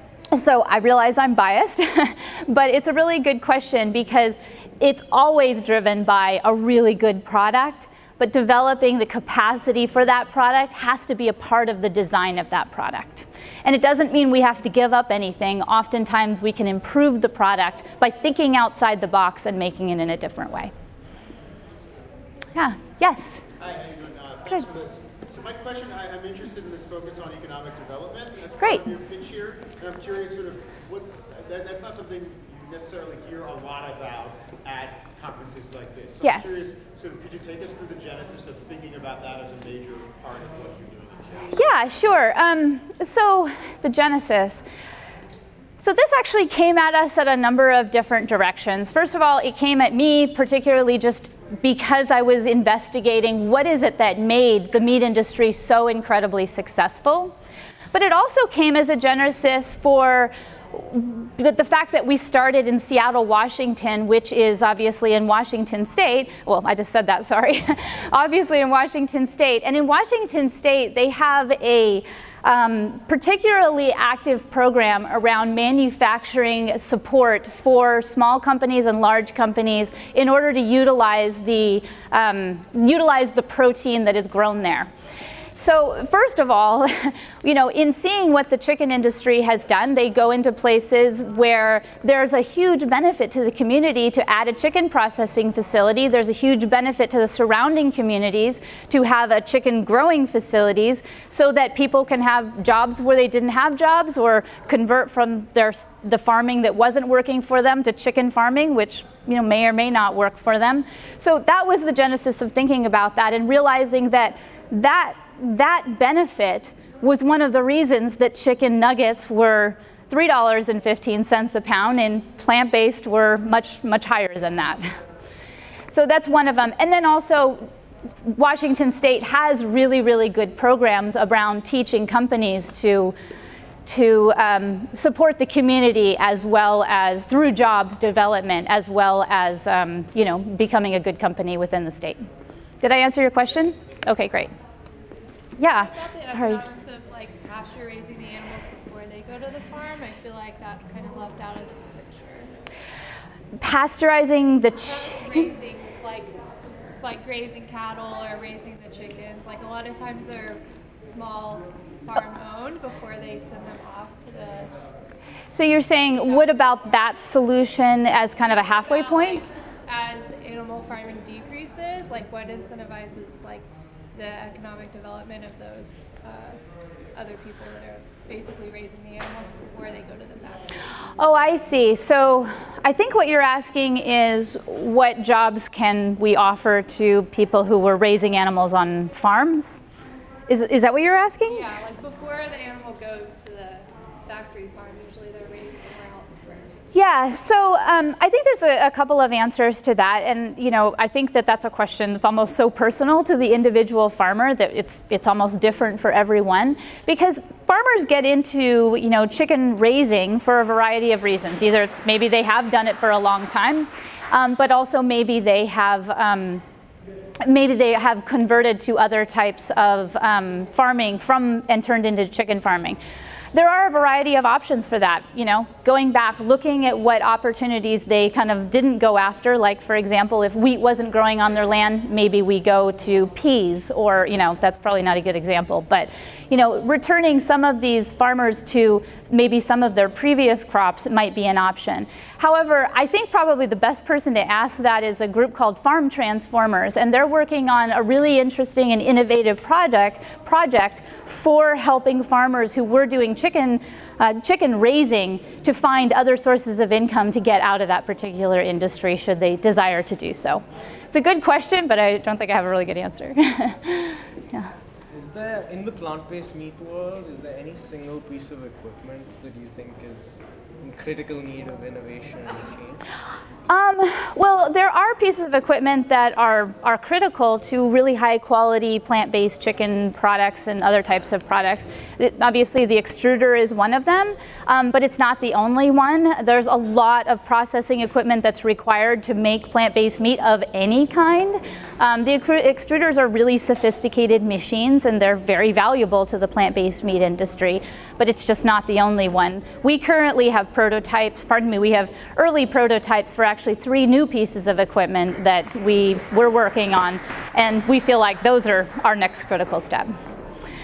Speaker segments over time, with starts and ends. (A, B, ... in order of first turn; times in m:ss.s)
0:00.3-0:20.7 A
0:22.6-0:23.4 A
0:23.6-0:41.6 B
0:36.2-0:36.6 A
0:41.6-0:44.6 A
0:45.8-0:57.4 A
0:57.9-1:24.9 A
1:25.6-2:04.9 A
2:05.9-2:07.7 A
2:08.2-2:13.2 A
2:13.9-2:22.2 A
2:22.8-2:24.5 A
2:25.6-2:26.6 A
2:25.7-2:32.5 C
2:33.6-2:35.5 A
2:34.8-2:36.3 C
2:37.0-2:44.8 C
2:45.5-2:49.5 A
2:46.1-2:46.8 C
2:48.8-2:56.6 C
2:57.2-3:00.7 C
3:01.2-3:09.8 A
3:10.5-3:11.6 A
3:11.4-3:16.9 C
3:16.9-3:36.6 A
3:37.4-3:43.0 A
3:43.5-4:24.7 A
4:25.1-4:33.0 D
4:33.7-5:10.2 A